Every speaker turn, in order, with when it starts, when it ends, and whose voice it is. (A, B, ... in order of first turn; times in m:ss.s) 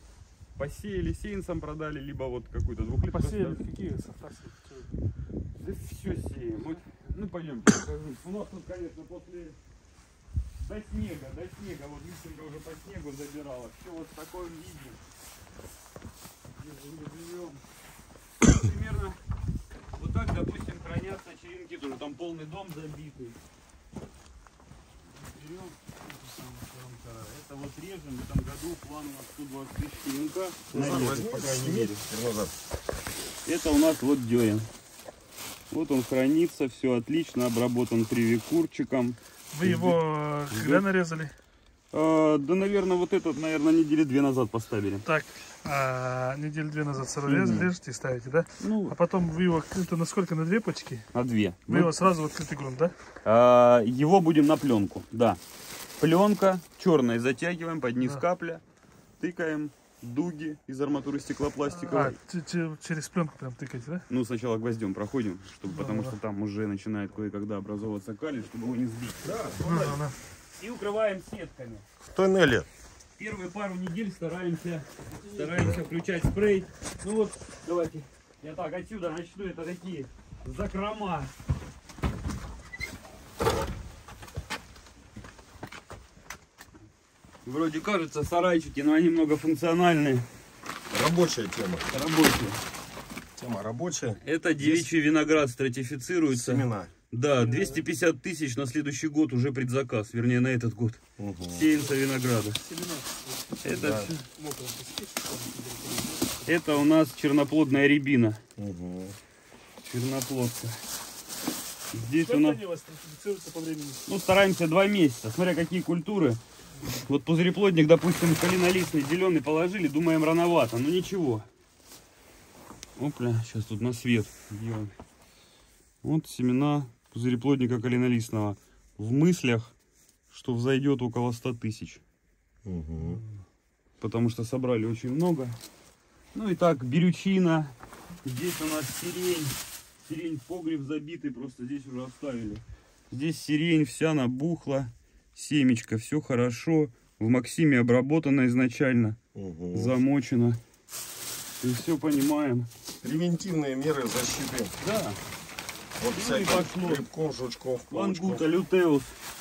0:00.6-0:03.6 A
0:03.1-0:05.0 B
0:05.5-0:09.6 A
0:10.6-0:15.0 A
0:16.6-0:17.6 A
0:18.4-0:19.2 A
0:20.0-0:23.4 A
0:25.0-0:32.0 A
0:30.7-0:32.6 C
0:33.4-0:34.7 A
0:35.7-0:40.0 A
0:39.5-0:41.3 B
0:40.5-0:40.9 A
0:41.9-0:45.1 A
0:45.0-0:51.1 B
0:47.2-0:47.7 A
0:48.6-0:49.0 A
0:51.1-0:51.9 A
0:51.7-0:52.9 B
0:53.2-0:55.4 A
0:56.0-0:58.6 A
0:59.2-1:02.2 A
1:01.7-1:04.0 B
1:04.1-1:09.4 A
1:05.7-1:06.1 B
1:09.2-1:10.0 C
1:09.6-1:10.1 B
1:10.6-1:11.8 A
1:12.0-1:12.6 C
1:13.2-1:21.3 A
1:27.4-1:30.3 A
1:30.9-1:31.9 C
1:31.9-1:32.6 A
1:33.4-1:34.9 C
1:34.2-1:42.6 A
1:36.3-1:36.9 C
1:37.4-1:37.8 B
1:41.2-1:41.7 C
1:42.6-1:46.8 B
1:43.6-1:44.2 A
1:43.7-1:44.1 C
1:46.4-1:48.4 A
1:48.6-1:49.2 C
1:49.8-1:50.8 A
1:51.9-1:52.6 A
1:52.2-1:54.0 B
1:54.0-2:01.4 A
2:03.0-2:04.9 A
2:06.0-2:09.7 A
2:10.3-2:12.0 A
2:12.6-2:13.2 C
2:14.0-2:15.6 A
2:16.3-2:29.2 A
2:29.3-2:29.9 C
2:29.7-2:30.6 A
2:31.6-2:32.7 A
2:33.0-2:34.7 C
2:34.8-2:35.2 A
2:36.0-2:38.4 C
2:36.1-2:37.0 A
2:37.9-2:39.2 A